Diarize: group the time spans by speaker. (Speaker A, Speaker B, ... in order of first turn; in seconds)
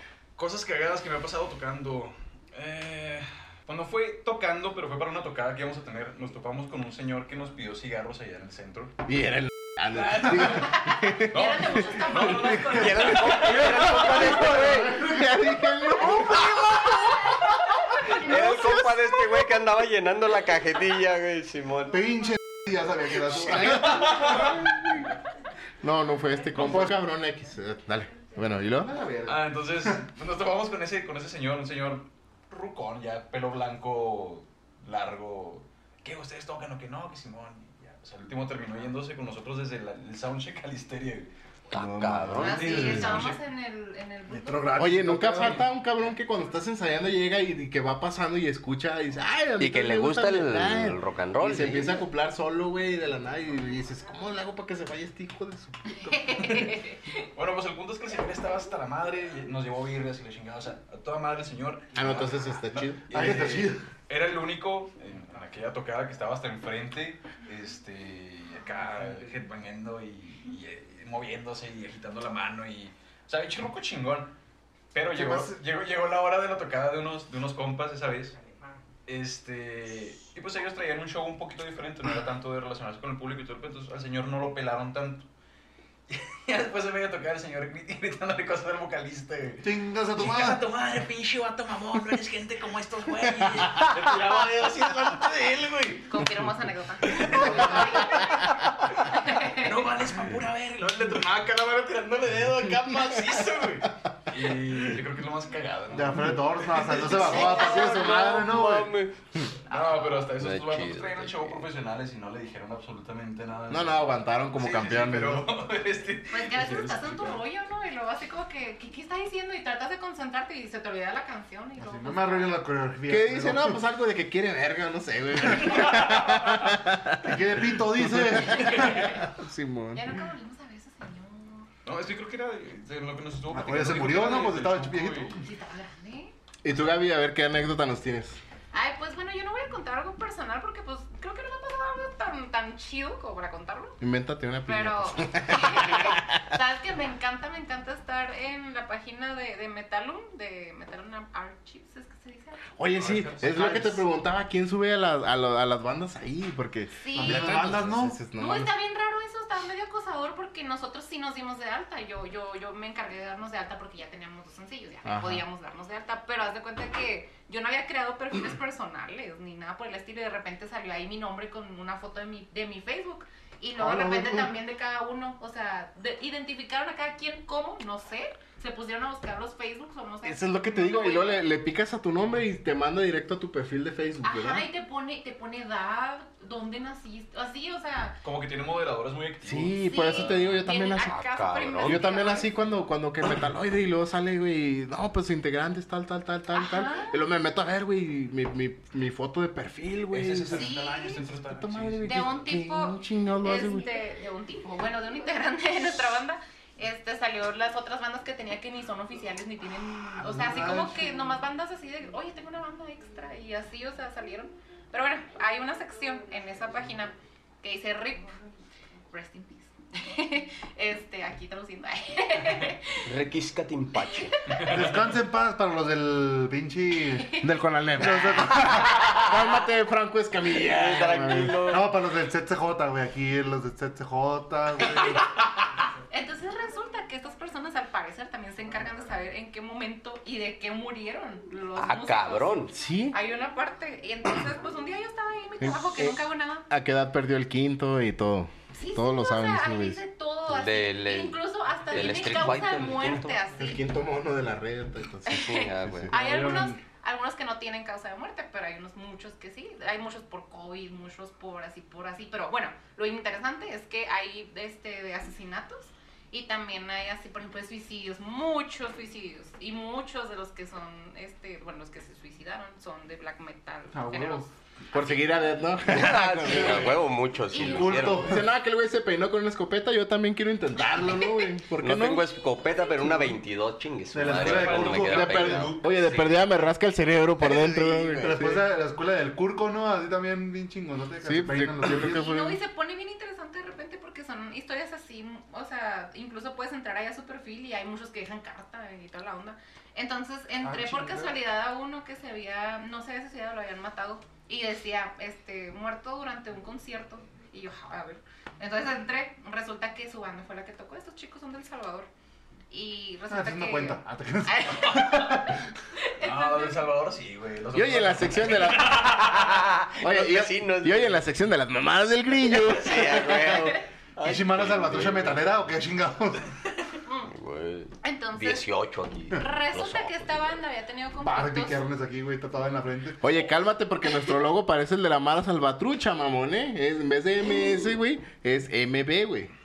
Speaker A: 0.4-9.0, 9.9-10.8, 11.3-14.4, 23.3-24.7, 26.6-26.9, 29.2-41.3, 42.4-43.4, 56.4-56.8, 57.3-74.3, 74.9-78.4, 79.1-85.3, 86.1-96.4, 97.0-107.5, 109.7-117.4, 125.7-126.7, 131.8-135.5, 152.9-154.0, 188.2-190.6, 200.1-202.4, 224.7-225.0, 284.3-286.4, 316.2-319.7
Speaker B: 9.1-12.7, 14.0-17.4, 18.1-18.8, 24.2-25.1, 25.8-29.3, 41.7-43.3, 44.8-56.5, 62.0-63.4, 113.7-115.5, 123.1-130.1, 136.6-138.4, 144.0-146.5, 152.8-158.7, 165.1-165.4, 180.2-184.7, 189.4-191.2, 191.8-200.8, 201.5-203.9, 210.2-211.1, 227.4-231.7, 242.7-243.2, 245.6-250.0, 251.9-252.4, 253.6-256.8, 274.9-277.0, 277.9-282.3, 285.1-288.6, 291.2-292.6, 317.7-319.2, 320.0-323.8, 333.2-339.5
Speaker C: 10.6-13.4, 17.9-18.4, 42.4-44.8, 56.0-57.2, 96.1-99.8, 107.0-108.0, 116.3-122.6, 128.8-129.2, 129.9-131.7, 135.4-136.3, 138.7-144.0, 144.7-152.7, 157.0-157.6, 158.4-181.4, 184.2-188.2, 189.8-192.5, 196.5-197.2, 200.5-201.2, 202.0-218.3, 219.1-223.1, 224.0-224.7, 236.1-246.7, 248.7-253.8, 255.3-275.2, 277.5-278.2, 292.1-312.1, 312.7-316.8, 327.1-327.3, 328.0-328.7, 329.3-331.8
Speaker D: 12.7-15.1, 18.1-22.0, 41.7-42.9, 49.6-52.0, 107.1-109.2, 110.3-111.6, 191.0-192.1, 223.1-224.4, 229.1-229.4, 230.5-231.9, 241.8-242.7, 250.5-253.4, 255.4-256.1, 275.9-278.3, 281.8-285.8, 319.2-321.2, 322.4-325.4, 327.3-330.5
Speaker E: 21.9-24.4, 42.5-43.3, 44.3-45.7, 63.1-63.9, 75.1-75.5, 89.6-90.6, 97.3-98.0, 105.9-108.9, 121.8-123.8, 127.2-129.2, 133.5-135.5, 157.2-158.2, 173.8-174.5, 224.6-227.4, 228.0-229.1, 231.7-235.3, 256.3-256.6, 273.9-274.5, 277.5-278.4, 284.1-285.6, 288.2-292.3, 300.6-301.4, 313.3-315.6, 324.2-326.5, 331.2-333.2